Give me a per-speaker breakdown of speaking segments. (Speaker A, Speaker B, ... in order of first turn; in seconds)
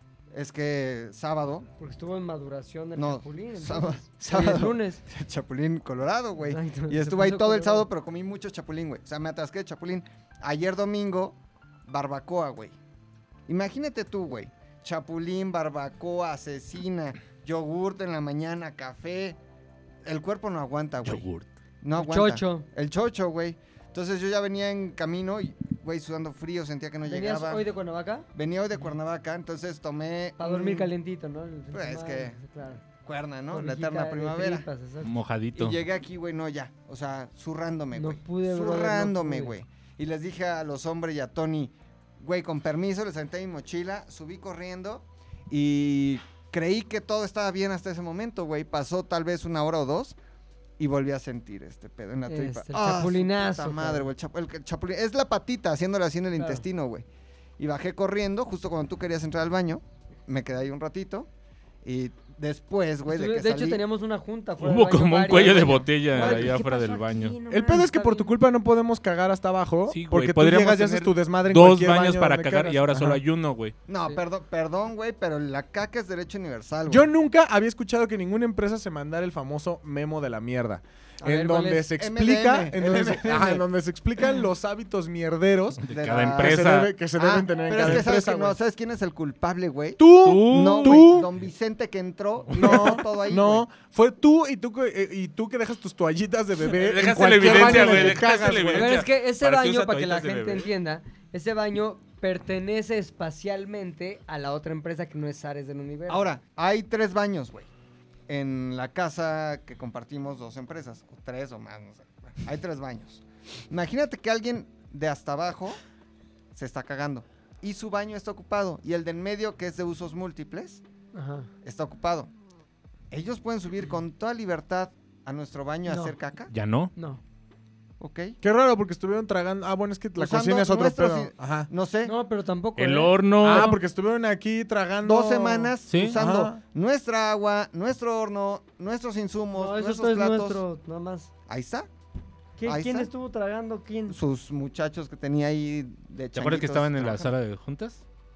Speaker A: 0.3-1.7, 3.0-12.8, 13.5-19.4, 20.0-21.3, 21.8-27.7, 28.3-30.9, 31.7-34.7, 35.5-50.2, 50.8-57.0, 57.6-61.3, 61.8-63.8, 65.6-66.6, 73.9-77.1, 82.0-83.7, 85.9-93.7, 97.4-97.8, 106.1-107.7, 108.3-115.8, 116.5-120.8, 121.6-122.3, 123.1-126.5, 128.0-128.4, 130.2-132.1, 135.0-140.6, 141.5-141.9, 142.6-143.1, 144.1-147.3
Speaker B: 1.8-5.0, 6.5-7.9, 22.0-22.7, 27.1-28.3, 30.4-32.8, 33.5-35.1, 38.0-39.6, 52.3-54.1, 56.4-56.6, 63.1-68.4, 81.2-81.9, 97.4-98.2, 98.7-106.3, 121.1-121.5, 125.9-126.2, 127.0-127.2, 132.0-133.8, 139.5-141.3, 142.6-144.2
Speaker C: 21.1-21.5, 35.0-35.8, 64.6-67.4, 69.9-73.8, 85.8-87.0, 90.2-91.3, 96.6-100.7, 126.5-126.9, 132.8-133.8, 135.9-136.2, 146.3-148.0
Speaker D: 67.5-73.2, 76.9-88.6, 90.0-91.3, 92.5-99.0, 128.4-131.7, 133.4-136.6